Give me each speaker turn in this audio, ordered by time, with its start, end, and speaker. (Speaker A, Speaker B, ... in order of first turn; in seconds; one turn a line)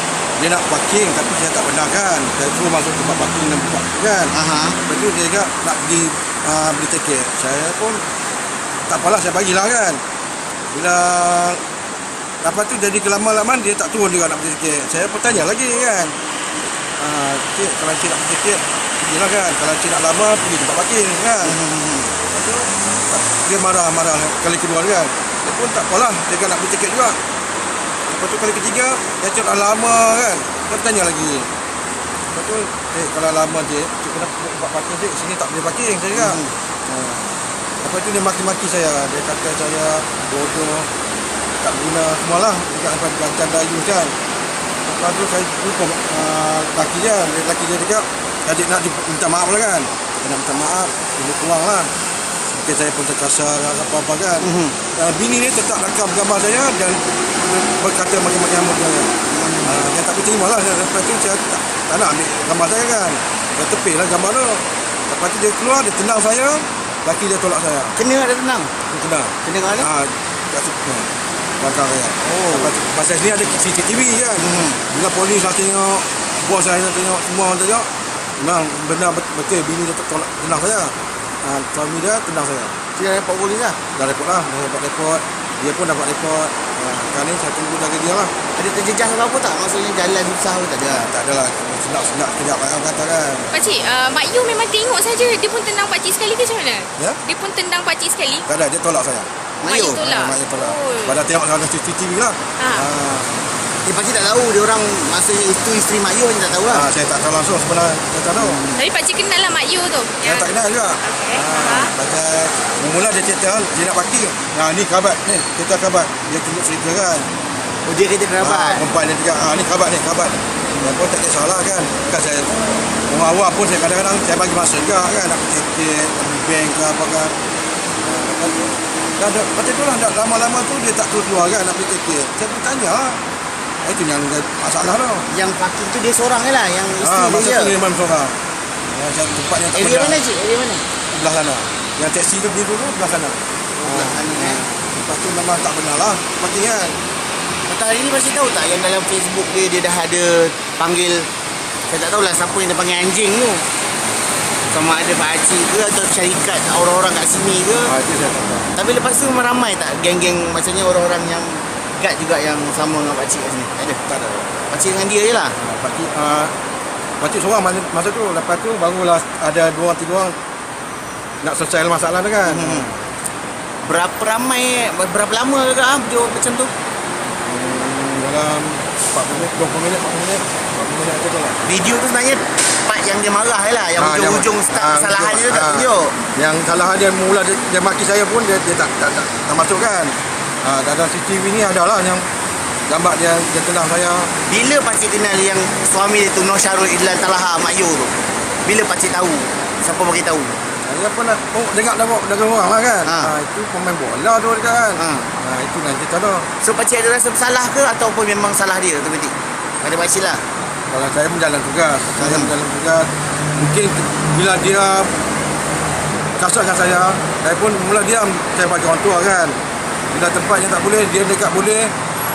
Speaker A: 0.4-8.1
Speaker B: 4.3-4.8
Speaker A: 8.9-10.0
Speaker A: 10.7-11.6
Speaker A: 12.4-16.2
Speaker A: 17.0-21.6
Speaker B: 21.4-22.1
Speaker A: 22.3-27.2
Speaker A: 28.1-31.5
Speaker A: 32.3-40.9
Speaker B: 36.1-36.5
Speaker A: 41.6-44.2
Speaker A: 44.8-51.9
Speaker A: 52.5-59.1
Speaker B: 54.4-54.8
Speaker B: 59.3-59.9
Speaker A: 59.6-68.0
Speaker B: 68.0-68.7
Speaker A: 68.9-82.8
Speaker B: 69.4-69.9
Speaker B: 72.2-72.7
Speaker B: 74.4-74.8
Speaker B: 83.0-83.8
Speaker A: 84.0-88.3
Speaker B: 88.6-91.1
Speaker A: 90.8-93.5
Speaker C: 93.5-98.5
Speaker A: 98.5-99.3
Speaker B: 99.6-100.0
Speaker C: 99.7-101.2
Speaker A: 99.9-103.5
Speaker C: 102.6-102.9
Speaker B: 103.8-106.9
Speaker A: 106.7-108.6
Speaker B: 108.4-108.8
Speaker C: 108.8-111.9
Speaker A: 110.2-117.3
Speaker B: 117.8-118.9
Speaker A: 118.4-122.5
Speaker B: 120.7-121.0
Speaker A: 123.1-127.4
Speaker A: 128.0-133.2
Speaker A: 133.8-135.3
Speaker B: 135.3-137.7
Speaker A: 137.0-140.2
Speaker B: 139.7-140.9
Speaker A: 141.1-147.0
Speaker B: 143.8-144.7
Speaker B: 147.7-151.3
Speaker B: 151.9-153.7
Speaker B: 154.7-157.9
Speaker A: 157.8-158.7
Speaker B: 158.8-164.1
Speaker A: 164.1-164.6
Speaker B: 164.7-165.6
Speaker A: 165.6-166.5
Speaker A: 167.2-170.4
Speaker A: 171.4-173.1
Speaker B: 172.4-172.9
Speaker B: 173.8-176.7
Speaker A: 177.4-181.6
Speaker B: 181.6-186.2
Speaker A: 184.0-192.3
Speaker A: 192.9-194.3
Speaker B: 194.5-200.6
Speaker A: 200.8-206.5
Speaker B: 203.1-203.3
Speaker B: 205.0-205.3
Speaker B: 206.6-210.4
Speaker A: 210.8-215.2
Speaker B: 212.2-212.5
Speaker A: 216.4-219.6
Speaker A: 220.1-221.9